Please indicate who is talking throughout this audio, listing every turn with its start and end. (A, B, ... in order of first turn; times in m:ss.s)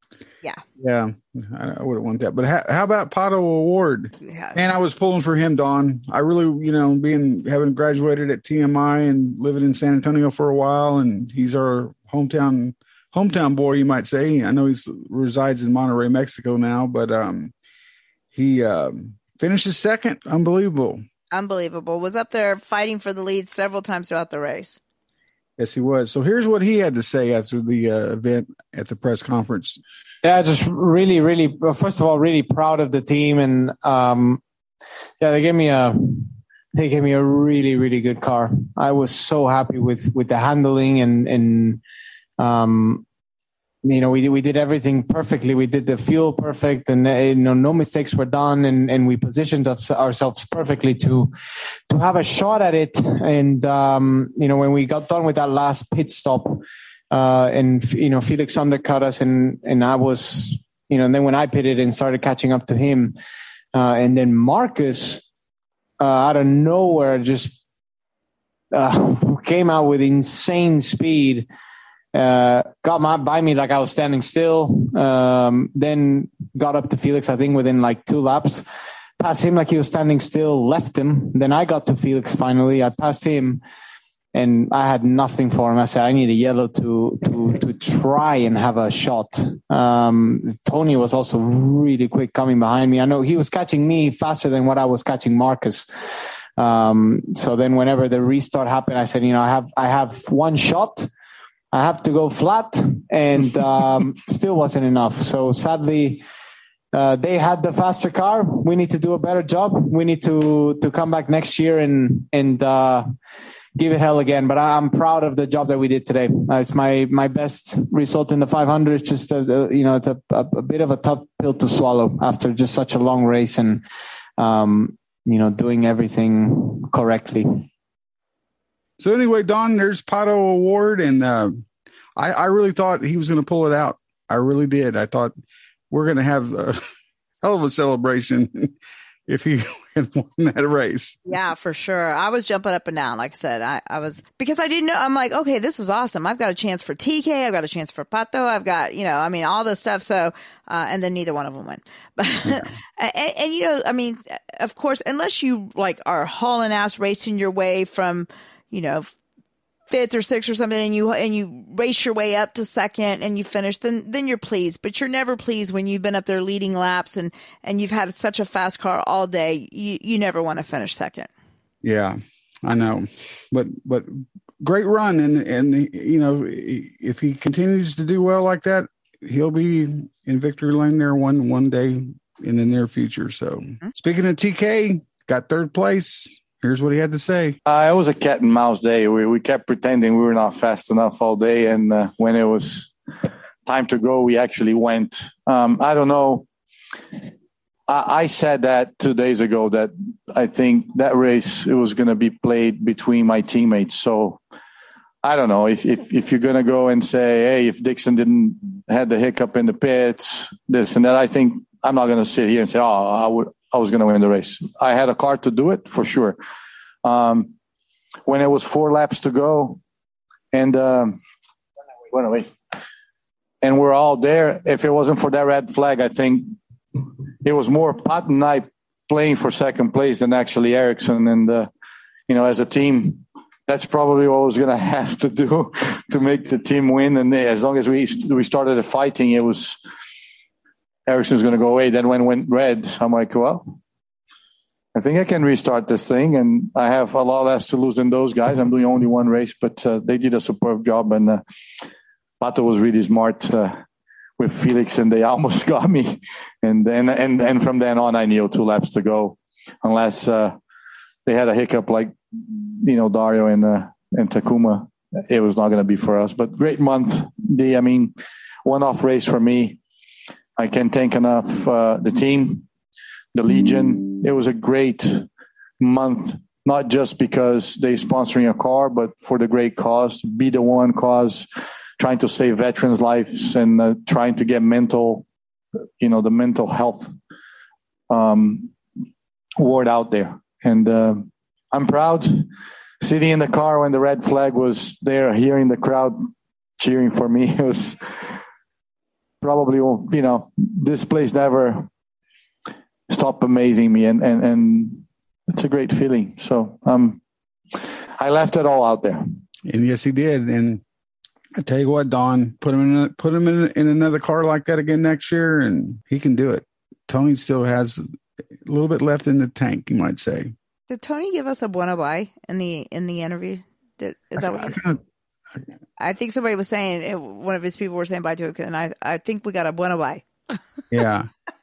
0:00.8-0:17.5 A
0:04.2-0:04.6 B
0:18.3-0:21.0 A
0:21.3-0:24.8 B
0:25.6-0:29.8 A
0:30.2-0:34.4 C
0:35.2-0:41.8 C
0:42.4-0:43.0 C
0:43.8-0:51.3 C
0:51.9-1:03.2 C
1:03.7-1:05.2 C
1:06.0-1:07.6 C
1:08.7-1:11.5 C
1:12.1-1:18.6 C
1:19.2-1:23.6 C
1:24.3-1:35.9 C
1:36.6-1:41.1 C
1:41.7-1:46.2 C
1:46.9-1:53.1 C
1:53.8-2:03.8 C
2:04.4-2:07.6 C
2:09.0-2:11.6 A
2:12.2-2:15.4 A
2:15.9-2:16.8 A
2:17.4-2:18.7 A
2:19.3-2:21.2 A
2:21.3-2:39.1 B
2:32.4-2:32.7 A
2:39.9-2:51.3 B
2:51.8-3:07.6 A
3:07.7-3:12.9 D
3:13.6-3:16.5 D
3:17.9-3:24.4 D
3:25.2-3:36.4 D
3:37.0-3:37.6 D
3:38.3-3:39.8 D
3:40.5-3:41.2 D
3:42.1-3:42.5 D
3:43.6-3:51.7 D
3:52.3-3:59.8 D
4:01.1-4:03.8 D
4:05.0-4:11.4 D
4:12.4-4:13.8 D
4:14.4-4:20.6 D
4:21.3-4:28.1 D
4:28.6-4:29.8 D
4:30.6-4:32.7 D
4:33.4-4:35.3 D
4:35.8-4:41.5 D
4:42.0-4:45.3 D
4:46.0-4:47.1 D
4:48.1-4:48.8 D
4:49.6-4:52.5 D
4:53.0-4:58.0 D
4:59.4-5:01.9 D
5:03.1-5:07.2 D
5:08.2-5:09.2 D
5:09.6-5:10.8 A
5:11.6-5:18.0 A
5:18.6-5:20.5 A
5:20.9-5:24.8 B
5:24.4-5:25.0 A
5:26.0-5:30.6 B
5:30.9-5:31.3 A